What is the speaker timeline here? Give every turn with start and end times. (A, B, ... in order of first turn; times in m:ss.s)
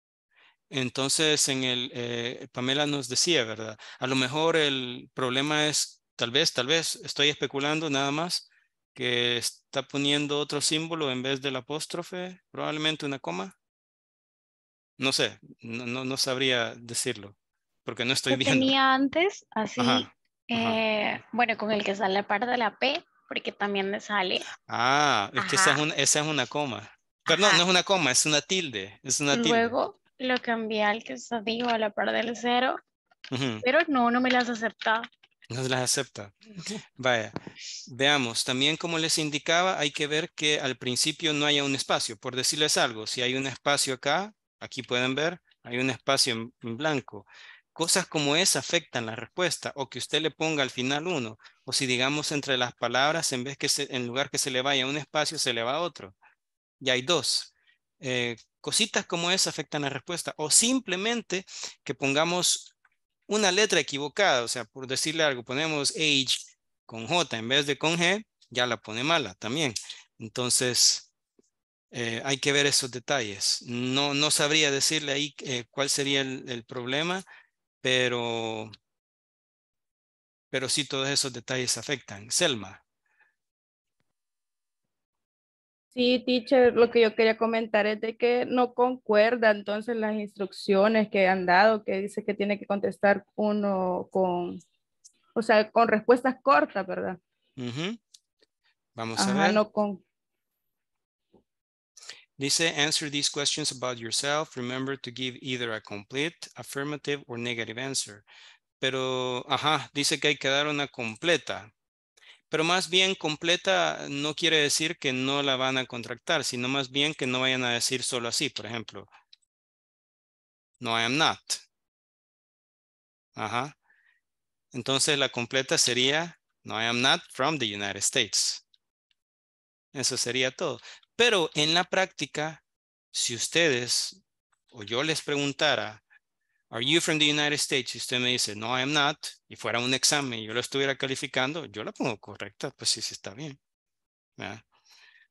0:00.7-0:13.5 A
0:15.0-0:18.7 A
0:18.3-0:24.4 B
0:19.8-0:20.8 A
0:24.6-0:29.8 A
0:25.4-0:25.8 B
0:27.3-0:27.6 B
0:29.3-0:32.8 B
0:33.3-0:33.6 A
0:33.6-0:35.0 B
0:35.5-0:36.3 A
0:37.0-0:37.3 A
0:37.9-0:56.1 A
0:56.8-1:02.7 A
1:03.3-1:11.1 A
1:11.9-1:17.2 A
1:17.8-1:18.7 A
1:20.5-1:22.8 A
1:25.9-1:34.6 C
1:35.4-1:37.2 C
1:37.6-1:38.0 A
1:39.0-1:39.6 A
1:39.2-1:40.0 C
1:42.4-1:48.2 A
1:48.8-1:51.7 A
1:52.5-1:59.1 A
2:00.8-2:01.6 A
2:03.4-2:03.7 A
2:04.7-2:08.6 A
2:09.9-2:12.6 A
2:13.1-2:14.2 A
2:14.7-2:16.0 A
2:16.7-2:23.6 A
2:24.4-2:24.6 A